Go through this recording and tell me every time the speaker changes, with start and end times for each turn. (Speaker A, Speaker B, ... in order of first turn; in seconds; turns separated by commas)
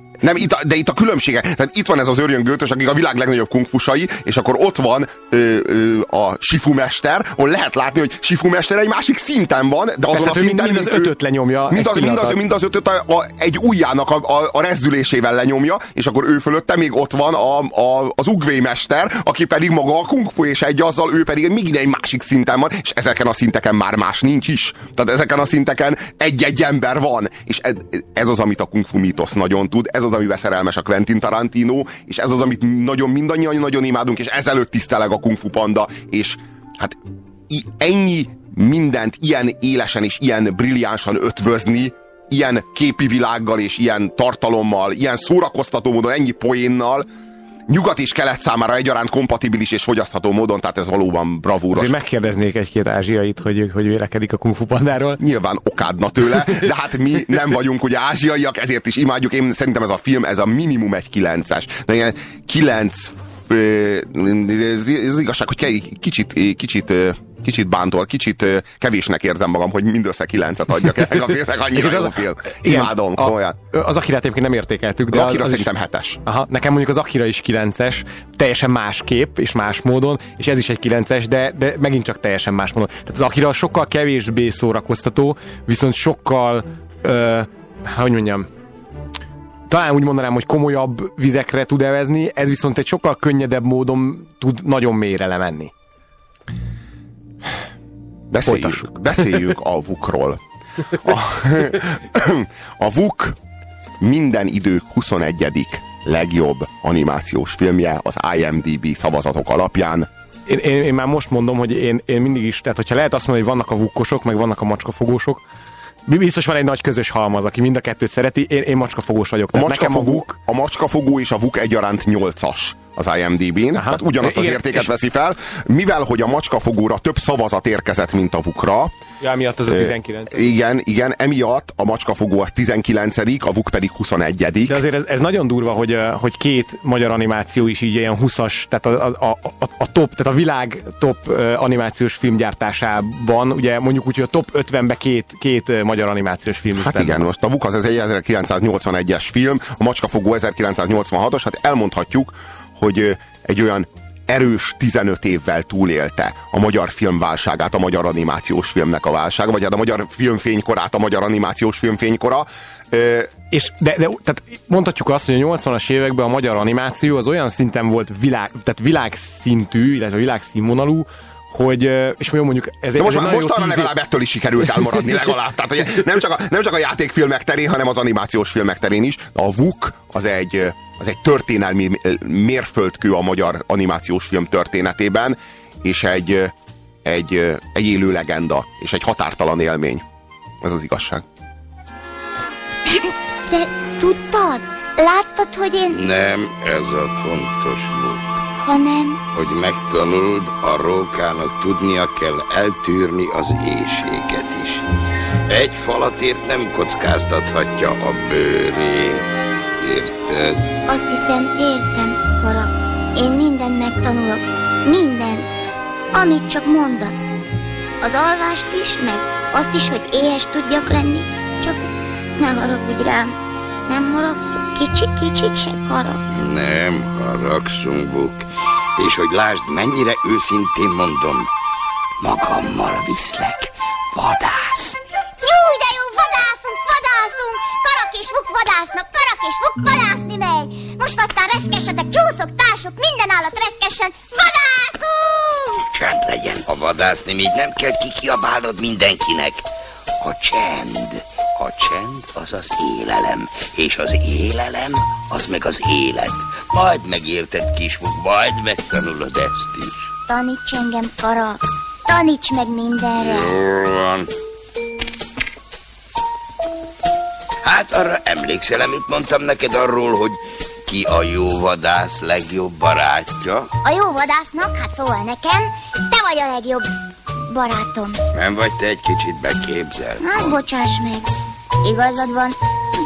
Speaker A: 0.2-11.1, Speaker B: 10.1-12.4, Speaker A: 11.7-47.1, Speaker A: 47.7-51.9, Speaker B: 51.7-55.2, Speaker A: 55.2-73.6, Speaker B: 71.7-75.7, Speaker A: 75.1-76.2, Speaker B: 76.3-88.5, Speaker B: 89.7-95.7, Speaker A: 98.3-100.4, Speaker B: 98.5-99.5, Speaker A: 101.0-103.4, Speaker A: 104.0-110.1, Speaker B: 110.5-115.4, Speaker B: 116.1-120.4, Speaker A: 119.5-128.9, Speaker B: 123.8-124.9, Speaker B: 129.2-130.5, Speaker A: 129.7-134.8, Speaker B: 134.7-147.3, Speaker A: 146.8-163.3, Speaker B: 163.5-173.9, Speaker A: 173.0-186.5, Speaker A: 187.1-190.0, Speaker A: 190.6-191.2, Speaker C: 192.9-196.0, Speaker D: 195.9-198.4, Speaker C: 198.6-199.2, Speaker D: 199.3-204.9, Speaker D: 205.5-210.8, Speaker C: 210.9-215.5, Speaker C: 216.1-217.4, Speaker C: 218.0-223.4, Speaker C: 223.9-226.2, Speaker D: 226.3-228.5, Speaker D: 229.0-231.5, Speaker D: 232.2-235.0, Speaker C: 235.4-245.8, Speaker D: 245.9-249.6, Speaker D: 250.2-260.1, Speaker C: 260.3-263.5, Speaker D: 263.2-264.3, Speaker D: 267.6-273.7, Speaker C: 273.8-276.9, Speaker C: 277.5-278.2, Speaker D: 278.3-280.6, Speaker C: 280.2-281.3, Speaker C: 281.8-282.6